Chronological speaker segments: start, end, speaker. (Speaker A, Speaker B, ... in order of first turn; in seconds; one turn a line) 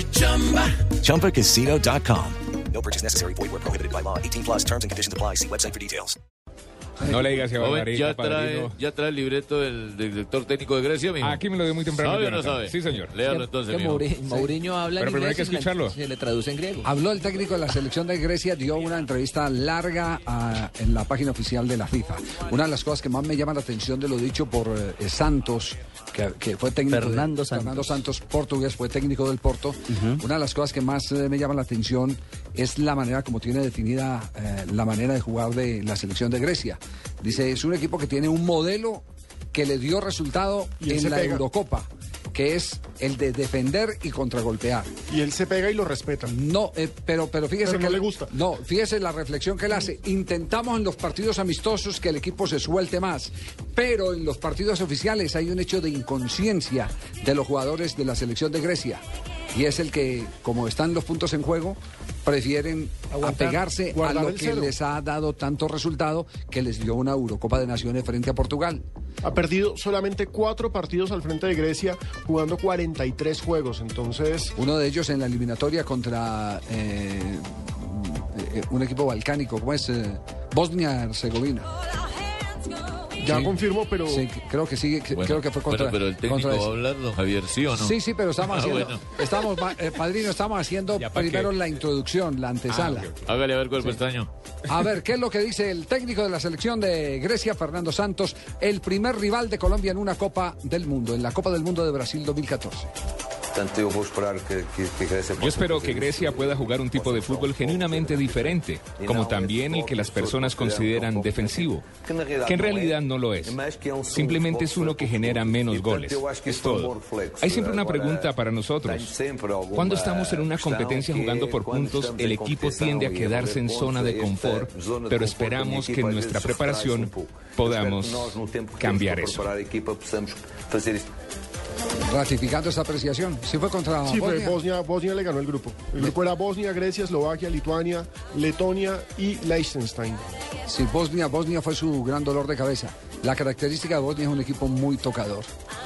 Speaker A: 0.8-6.2
Speaker B: 7.0-8.8
Speaker C: 7.6-14.1
Speaker B: 11.2-13.2
Speaker D: 12.9-16.9
Speaker B: 15.0-16.0
Speaker E: 16.8-44.9
Speaker D: 26.9-28.0
Speaker D: 29.9-30.2
Speaker F: 40.8-41.4
Speaker F: 45.1-46.3
Speaker E: 46.2-59.0
Speaker F: 47.6-48.3
Speaker E: 59.5-68.8
Speaker F: 63.2-64.8
Speaker F: 69.2-74.5
Speaker E: 74.6-81.7
Speaker F: 83.2-84.2
Speaker E: 83.3-86.7
Speaker C: 85.1-89.0
Speaker E: 87.7-93.2
Speaker B: 91.0-91.5
Speaker B: 92.7-93.1
Speaker C: 93.2-94.3
Speaker E: 94.7-102.9
Speaker G: 103.5-131.1
Speaker B: 105.4-111.9
Speaker B: 112.5-113.6
Speaker B: 114.1-119.1
Speaker B: 119.7-129.5
Speaker E: 132.1-134.6
Speaker F: 134.1-140.2
Speaker E: 140.7-145.5